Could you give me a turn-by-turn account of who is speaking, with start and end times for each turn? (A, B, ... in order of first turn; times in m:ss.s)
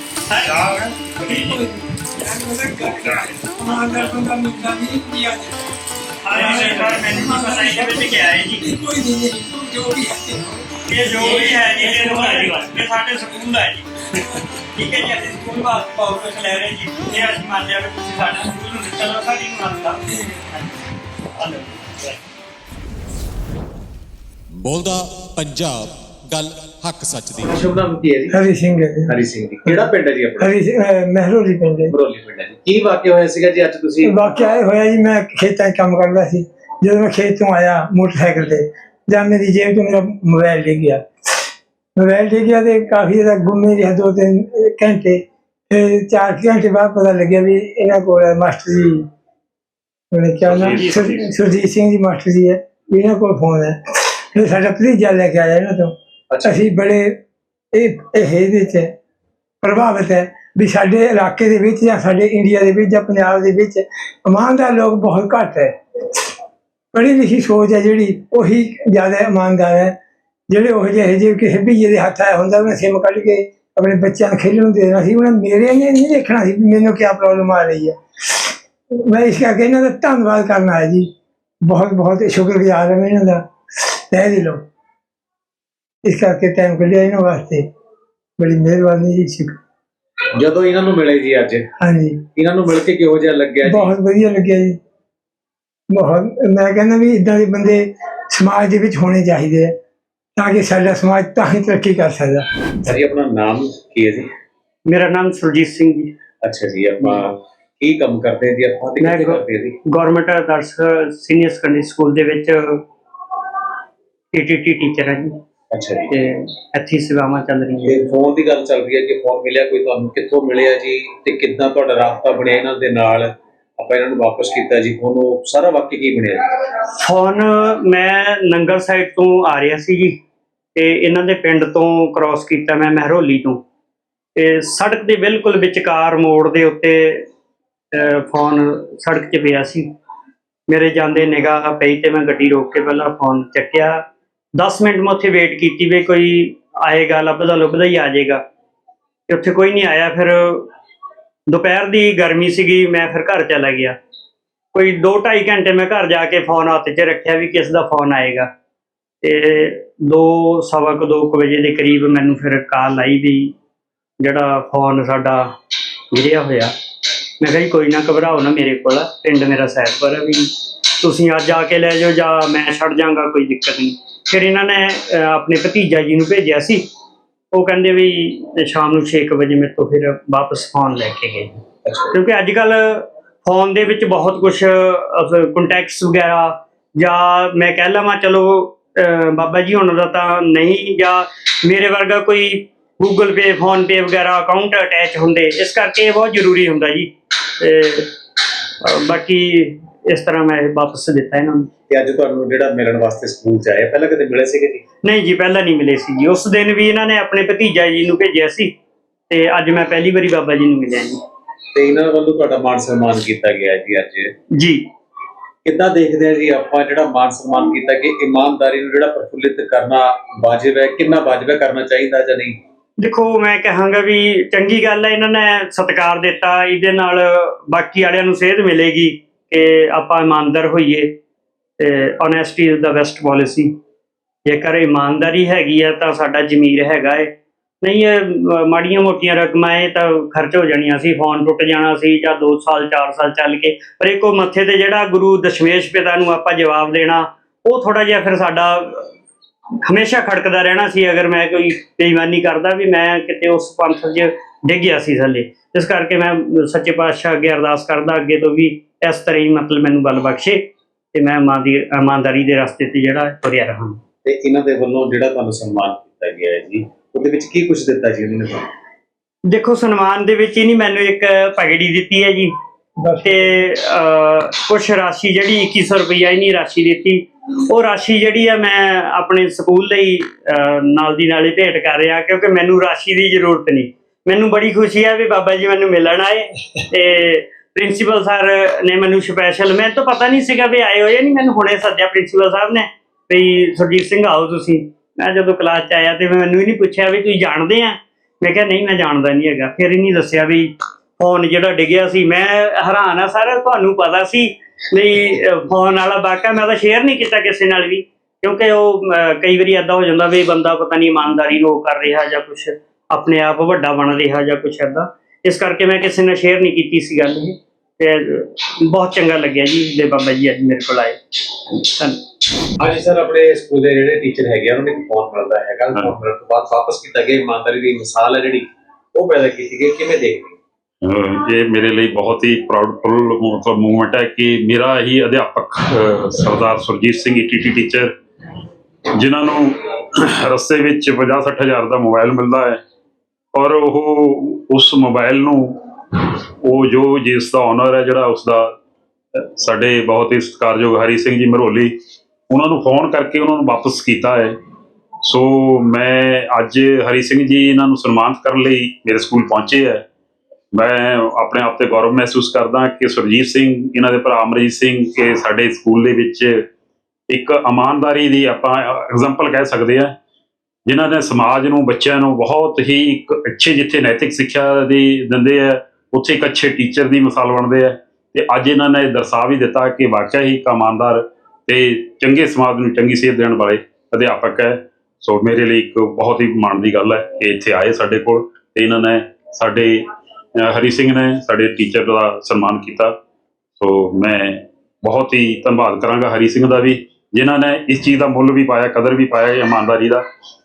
0:00.3-0:00.8 A
0:00.5-0:01.6 B
0:00.5-0:05.6 C
0:03.0-0:03.3 B
0:06.2-0:08.6 A
0:06.3-0:12.2 C
0:10.9-0:20.8 A
0:21.3-0:22.2 A
0:24.6-0:27.5 D
0:27.4-0:28.4 E
0:28.3-0:29.2 C
0:29.1-0:30.5 E
0:30.4-0:31.9 C
0:31.9-0:34.2 E
0:34.0-0:41.0 C
0:42.0-0:49.1 C
0:50.1-0:55.9 C
0:50.4-0:51.3 B
0:56.3-0:56.6 E
0:56.4-0:57.1 C
0:57.7-0:58.9 C
0:59.6-1:05.7 C
1:06.9-1:09.9 C
1:10.5-1:18.0 C
1:19.0-1:21.1 C
1:21.6-1:24.6 C
1:26.0-1:27.6 C
1:28.4-1:29.6 C
1:30.4-1:31.7 E
1:31.8-1:32.2 C
1:32.4-1:33.9 E
1:33.7-1:34.8 C
1:35.9-1:39.7 C
1:40.4-1:42.4 C
1:42.8-1:44.3 E
1:44.9-1:46.1 A
1:46.4-1:49.8 E
1:49.0-1:52.8 A
1:54.3-1:55.4 A
1:55.7-1:56.1 E
1:56.1-1:58.0 A
1:57.9-2:06.4 E
2:06.9-2:10.2 A
2:10.8-2:13.6 A
2:14.4-2:17.3 A
2:17.9-2:19.9 A
2:20.7-2:24.0 A
2:24.6-2:28.4 A
2:29.3-2:30.7 A
2:31.5-2:34.0 A
2:34.7-2:38.5 A
2:39.2-2:43.5 A
2:44.2-2:45.5 A
2:46.1-2:46.7 A
2:47.4-2:56.8 A
2:57.5-3:01.6 A
3:01.9-3:02.1 E
3:02.1-3:18.1 A
3:18.8-3:21.7 A
3:21.9-3:24.8 E
3:25.0-3:28.7 A
3:29.3-3:31.2 A
3:31.7-3:34.3 E
3:34.5-3:34.8 A
3:35.6-3:42.6 E
3:43.0-3:51.1 A
3:51.8-3:53.7 A
3:54.5-3:57.3 A
3:57.8-4:09.1 A
4:09.8-4:20.6 A
4:21.1-4:24.0 A
4:24.2-4:28.7 E
4:29.5-4:32.5 A
4:33.0-4:33.5 C
4:33.2-5:22.2 A
5:22.8-5:30.6 E
5:31.0-5:38.1 B
5:39.2-5:42.8 B
5:43.5-5:48.7 B
5:49.6-5:51.9 B
5:52.5-5:54.6 B
5:55.2-6:00.0 B
6:00.7-6:06.6 B
6:07.3-6:10.1 B
6:10.9-6:30.0 B
6:30.6-6:33.1 B
6:33.8-6:40.2 B